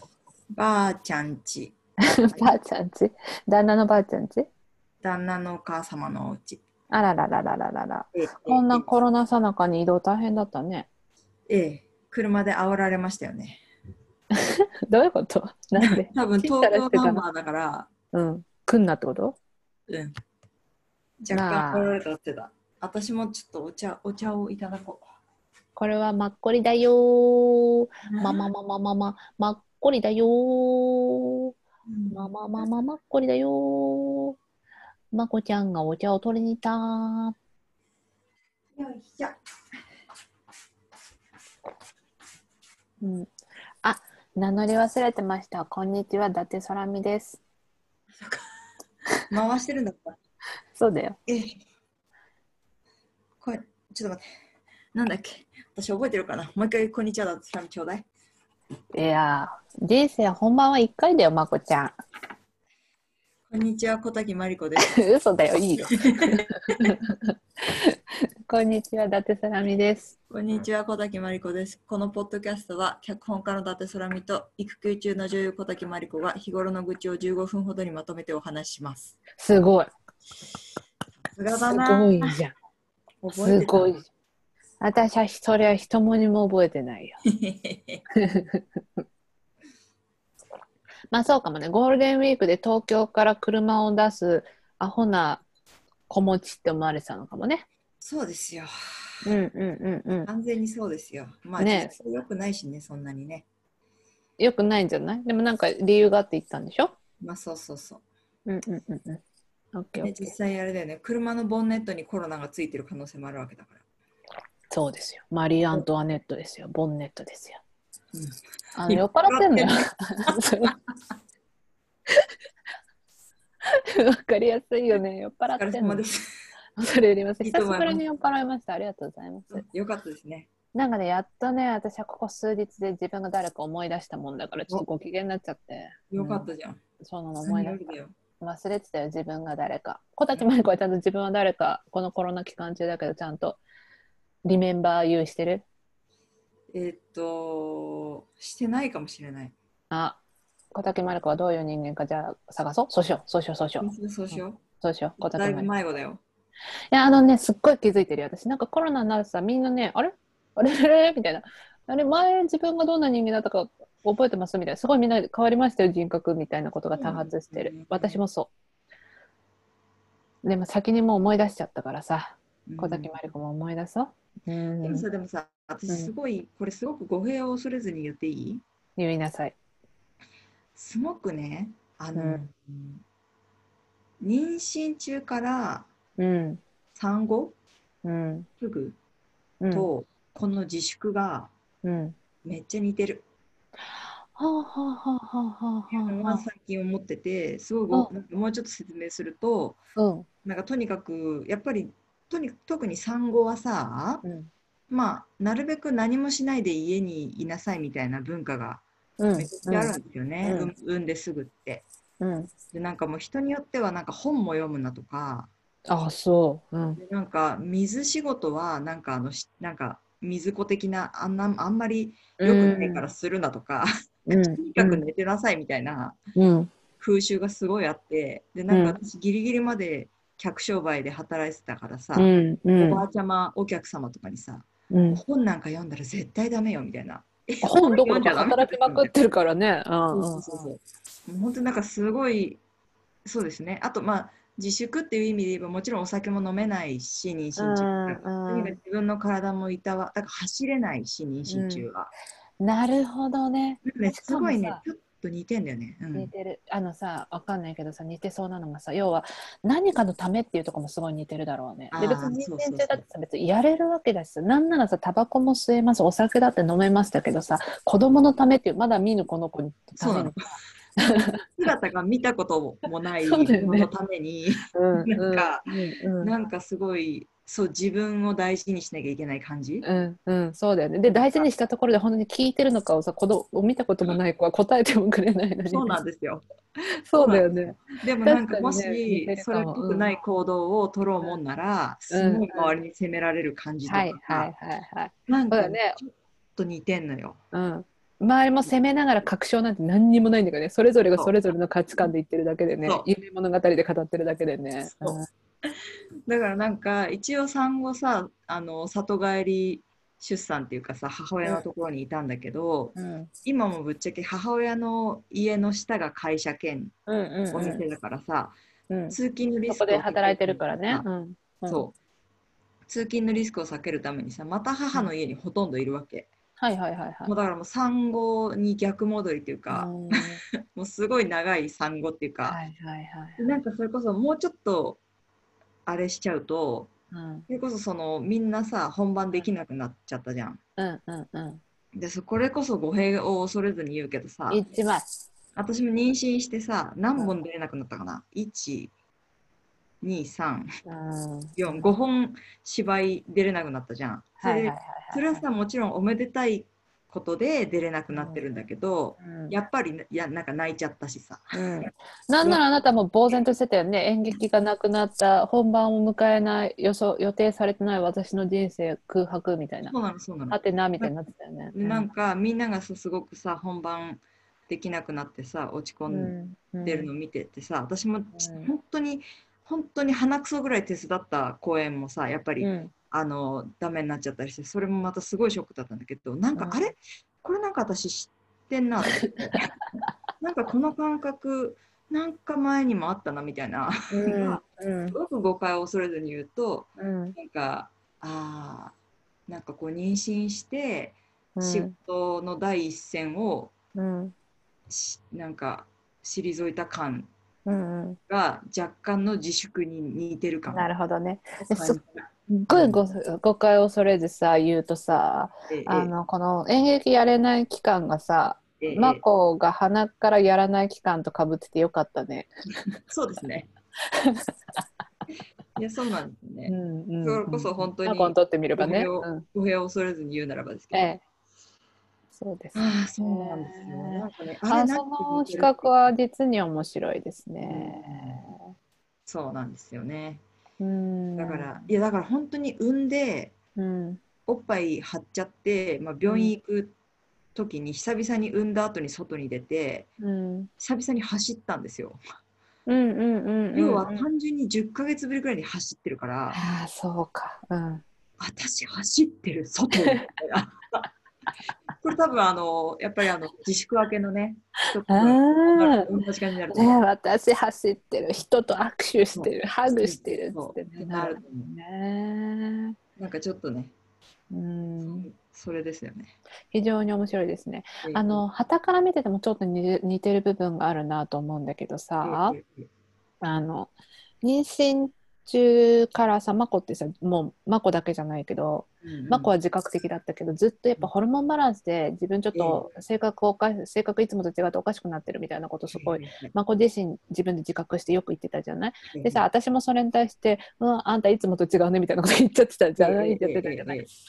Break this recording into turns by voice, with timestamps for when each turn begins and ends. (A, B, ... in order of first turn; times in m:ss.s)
0:00.6-0:02.6 A
0:02.1-0:04.5 B
0:05.0-0:06.6 A
0:06.9-0:10.9 B
0:08.1-0:08.9 A
0:11.5-0:13.6 A
0:14.4-0:17.2 B
0:15.8-0:17.9 A
0:18.1-0:19.4 B
0:19.9-0:20.1 A
0:21.2-0:25.0 A
0:21.3-0:21.9 B
0:25.8-0:31.5 B
0:28.1-0:28.4 A
0:31.9-0:32.6 A
0:32.1-0:34.4 B
0:35.1-0:37.4 B
0:38.8-0:39.4 A
0:43.0-0:43.3 B
0:43.8-0:47.4 B
0:48.2-0:48.4 A
0:49.3-0:50.2 A
0:50.8-0:51.2 B
0:51.3-0:51.6 A
0:53.4-0:54.2 A
0:54.9-0:58.1 A
0:58.9-1:01.9 B
1:03.5-1:04.9 A
1:04.8-1:08.0 B
1:06.0-1:06.9 A
1:08.5-1:10.2 B
1:10.3-1:19.2 A
1:19.4-1:19.9 B
1:21.3-1:22.3 A
1:21.6-1:22.5 B
1:23.2-1:24.0 A
1:23.3-1:24.1 B
1:24.8-1:27.2 B
1:27.3-1:28.0 A
1:28.2-1:28.8 B
1:31.1-1:35.4 B
1:36.1-1:37.7 B
1:38.0-1:38.7 A
1:39.2-1:40.3 B
1:40.3-1:43.4 A
1:41.6-1:41.9 B
1:44.4-1:47.0 B
1:47.2-1:48.0 A
1:48.5-1:49.2 B
1:49.7-1:50.3 B
1:50.0-1:53.8 A
1:54.7-1:57.6 B
1:58.1-2:00.7 A
1:58.8-2:00.7 B
2:03.8-2:06.0 B
2:05.5-2:06.2 A
2:06.8-2:09.6 B
2:07.4-2:08.0 A
2:09.5-2:10.5 A
2:10.8-2:16.5 B
2:16.1-2:16.8 A
2:17.0-2:23.6 B
2:17.4-2:18.1 A
2:24.5-2:25.6 B
2:26.7-2:29.5 A
2:29.9-2:30.2 B
2:30.7-2:35.7 B
2:33.8-2:34.6 A
2:35.4-2:36.2 A
2:36.9-2:48.5 B
2:47.0-2:48.2 A
2:50.4-2:55.1 B
2:52.7-2:53.1 A
2:54.8-2:58.6 A
2:59.0-2:59.6 B
3:00.8-3:03.0 A
3:02.2-3:02.4 B
3:04.2-3:05.9 A
3:06.2-3:06.6 B
3:07.0-3:07.6 A
3:08.0-3:08.5 B
3:08.6-3:09.0 A
3:09.6-3:09.9 B
3:09.7-3:11.5 A
3:11.8-3:12.2 B
3:12.4-3:13.2 A
3:13.9-3:16.4 B
3:15.9-3:19.8 A
3:20.0-3:20.3 B
3:20.4-3:24.2 A
3:24.2-3:24.5 B
3:24.9-3:28.8 A
3:29.2-3:30.7 B
3:29.4-3:31.8 A
3:32.2-3:32.5 B
3:32.7-3:35.5 A
3:35.9-3:37.0 B
3:37.0-3:46.2 A
3:42.4-3:43.1 B
3:44.3-3:45.0 B
3:46.4-3:46.7 B
3:47.0-3:59.1 A
3:48.7-3:49.0 B
3:52.2-3:53.0 B
3:54.9-3:55.2 B
3:57.6-4:00.7 B
4:00.1-4:02.6 A
4:03.2-4:12.1 A
4:07.6-4:08.8 B
4:11.5-4:11.9 B
4:12.6-4:14.8 B
4:13.8-4:16.3 A
4:16.1-4:31.4 B
4:21.9-4:23.0 A
4:30.0-4:30.6 A
4:31.6-4:35.7 A
4:33.3-4:33.9 B
4:34.7-4:36.3 B
4:36.2-4:39.8 A
4:39.8-4:46.0 B
4:41.0-4:41.5 A
4:45.7-4:46.4 A
4:47.1-4:54.5 A
4:47.1-4:50.1 B
4:52.1-4:52.8 B
4:53.9-4:56.0 B
4:55.3-4:57.4 A
4:57.5-5:05.3 B
5:04.8-5:05.8 A
5:06.3-5:16.9 A
5:13.0-5:13.3 B
5:17.1-5:17.8 B
5:17.5-5:18.5 A
5:18.9-5:19.2 B
5:19.1-5:21.1 A
5:19.7-5:21.8 B
5:21.7-5:21.9 A
5:22.9-5:26.3 A
5:26.6-5:27.3 B
5:27.2-5:30.2 A
5:29.7-5:30.4 B
5:30.8-5:32.6 A
5:32.5-5:33.5 B
5:33.4-5:35.0 A
5:35.9-5:36.9 A
5:37.1-5:37.5 B
5:37.5-5:40.6 A
5:40.8-5:41.6 B
5:41.9-5:44.6 A
5:44.5-5:45.1 B
5:45.6-5:48.9 A
5:50.0-5:50.7 A
5:50.9-5:51.9 B
5:51.6-6:01.9 A
5:54.4-5:55.4 B
5:58.1-5:58.4 B
5:59.2-5:59.5 B
6:01.5-6:09.9 B
6:09.9-6:11.1 A
6:10.5-6:12.1 B
6:11.7-6:29.6 A
6:16.1-6:17.1 B
6:18.3-6:18.7 B
6:22.6-6:22.9 B
6:26.6-6:26.8 B
6:30.4-6:39.0 A
6:34.1-6:35.2 B
6:37.0-6:37.4 B
6:39.5-6:43.7 A
6:41.6-6:41.9 B
6:44.0-6:44.3 B
6:44.9-6:47.3 A
6:47.7-6:48.2 B
6:48.3-6:50.9 A
6:50.7-7:02.5 B
6:51.6-6:53.0 A
6:55.7-6:56.1 A
6:58.8-6:59.2 A
7:03.1-7:03.7 A
7:04.1-7:04.8 B
7:05.8-7:11.1 A
7:06.7-7:09.4 B
7:10.9-7:11.2 B
7:12.3-7:18.7 B
7:12.7-7:16.0 A
7:17.6-7:18.5 A
7:19.3-7:20.4 A
7:20.8-7:21.8 B
7:21.4-7:23.5 A
7:23.8-7:24.2 B
7:24.5-7:27.0 A
7:26.2-7:26.5 B
7:27.6-7:30.1 A
7:30.2-7:30.7 B
7:30.8-7:32.2 A
7:32.9-7:34.3 B
7:33.7-7:36.6 A
7:36.5-7:38.0 B
7:38.4-7:41.1 A
7:42.0-7:47.0 A
7:45.1-7:46.1 B
7:46.7-7:53.0 B
7:49.4-7:51.7 A
7:53.2-7:53.9 A
7:54.5-7:55.3 B
7:55.0-7:56.4 A
7:56.7-8:02.6 B
7:58.0-7:58.4 A
8:02.2-8:02.9 A
8:03.4-8:03.9 B
8:04.4-8:24.1 B
8:09.1-8:09.5 A
8:12.5-8:12.9 A
8:15.9-8:16.5 A
8:19.1-8:19.4 A
8:23.0-8:24.1 A